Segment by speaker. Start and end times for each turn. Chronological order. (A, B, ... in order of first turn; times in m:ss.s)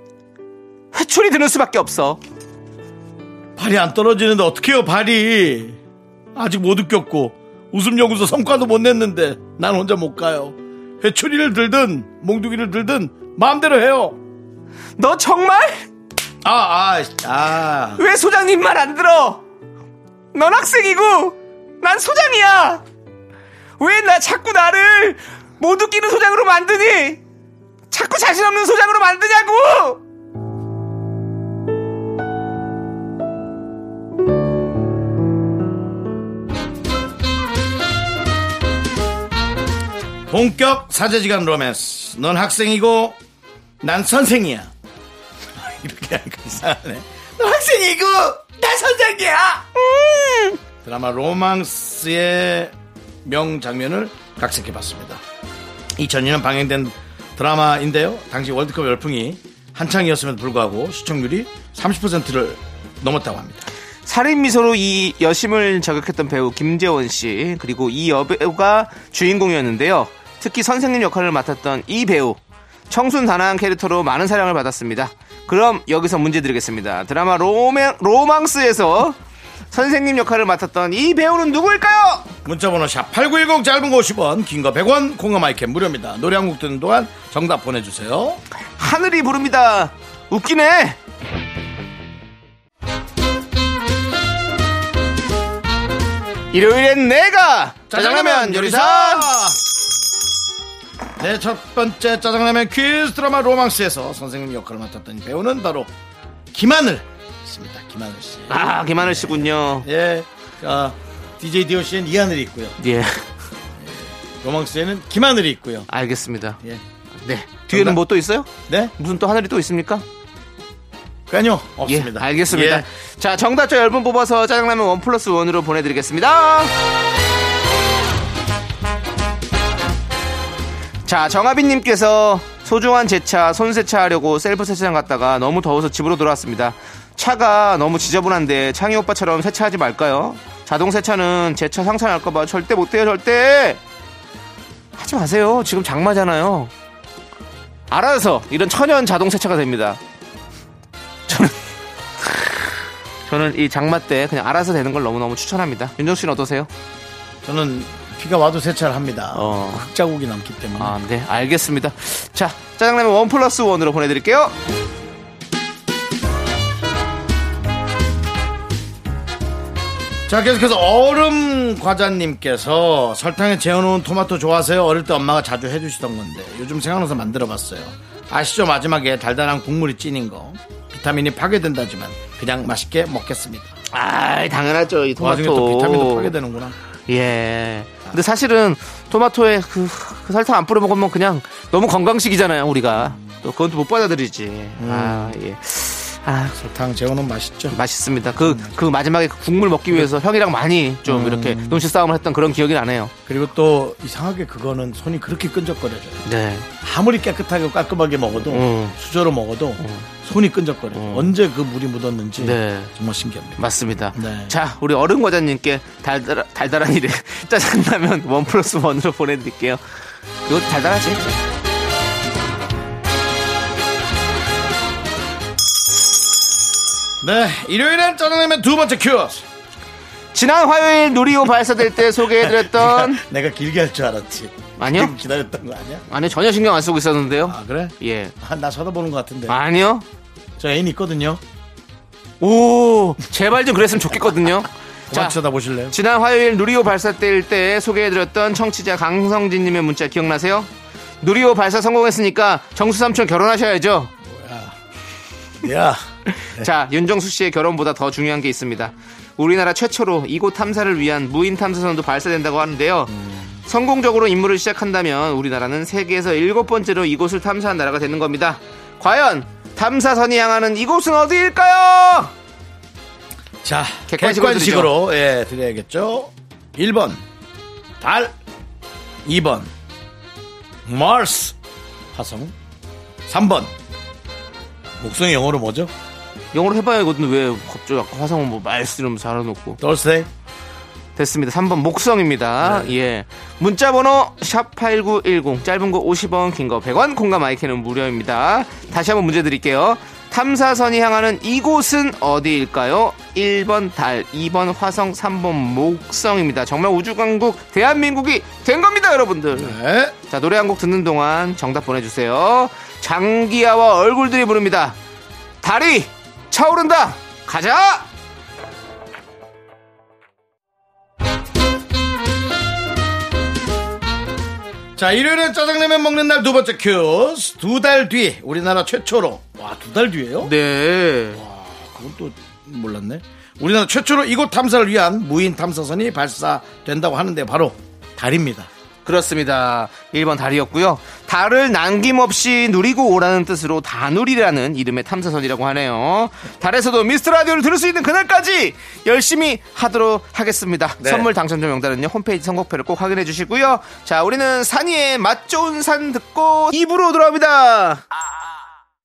0:00.9-0:02.2 A
0:03.6-0:05.8 B
0:06.3-0:14.2 B
0:15.0-0:15.8 A
0:16.4-0:18.0 B
0:18.0-0:19.4 A
0:20.3-0:22.8 A
0:23.8-0:27.2 A
0:27.9-0:30.0 A
0:40.3-0:43.2 B
0:43.8-0:44.7 B
0:45.5-0:49.6 B
0:49.7-0:50.6 A
0:50.8-0:52.7 B
0:53.2-0:55.2 B
0:56.0-1:03.7 B
1:04.0-1:12.4 A
1:12.9-1:19.2 A
1:19.7-1:22.3 A
1:22.4-1:28.4 B
1:28.8-1:31.0 A
1:36.5-1:39.3 A
1:37.9-1:39.6 B
1:41.2-1:45.9 B
1:46.5-1:52.8 B
1:48.5-1:49.9 A
1:52.8-1:53.2 A
1:53.8-1:55.9 B
1:55.9-1:56.6 A
1:57.2-2:00.0 A
1:57.7-1:58.0 B
1:58.7-1:58.9 B
2:01.3-2:02.8 B
2:01.9-2:06.7 A
2:11.0-2:23.8 A
2:25.0-2:26.7 A
2:27.9-2:30.0 A
2:31.3-2:31.6 A
2:32.2-2:32.6 A
2:33.3-2:36.7 A
2:37.4-2:41.0 B
2:39.3-2:39.9 A
2:40.8-2:44.5 A
2:50.3-3:03.7 B
3:03.9-3:06.3 A
3:05.2-3:06.8 B
3:07.1-3:16.6 A
3:12.9-3:13.4 B
3:14.8-3:15.4 B
3:16.5-3:17.8 B
3:17.7-3:23.1 A
3:18.4-3:18.7 B
3:21.0-3:21.9 B
3:23.2-3:26.2 B
3:26.2-3:26.7 A
3:26.8-3:33.6 B
3:28.4-3:29.0 A
3:29.8-3:30.1 A
3:30.9-3:31.3 A
3:32.4-3:32.9 A
3:33.6-3:41.3 A
3:34.1-3:34.6 B
3:47.2-3:49.4 B
3:50.3-3:53.2 A
3:52.0-3:56.0 B
3:54.8-3:55.1 A
3:56.1-3:58.3 A
3:57.4-3:59.6 B
3:59.5-4:00.0 A
4:00.6-4:01.4 B
4:02.4-4:05.4 A
4:05.1-4:06.0 B
4:05.9-4:10.7 A
4:11.2-4:14.1 A
4:14.2-4:14.7 B
4:15.6-4:16.7 B
4:16.4-4:23.1 A
4:23.1-4:23.6 B
4:23.6-4:32.3 A
4:33.6-4:37.2 B
4:34.1-4:34.9 A
4:38.0-4:38.3 B
4:39.2-4:39.7 B
4:40.8-4:41.5 B
4:42.1-4:42.5 B
4:43.2-4:43.7 B
4:45.0-4:45.9 B
4:46.5-4:49.8 A
4:49.8-4:50.3 B
4:51.2-5:15.0 A
4:52.6-4:52.9 B
5:09.5-5:10.1 B
5:15.6-5:18.1 A
5:25.0-5:30.5 B
5:30.4-5:31.4 A
5:31.3-5:38.7 B
5:39.0-5:58.0 A
5:51.0-5:51.3 B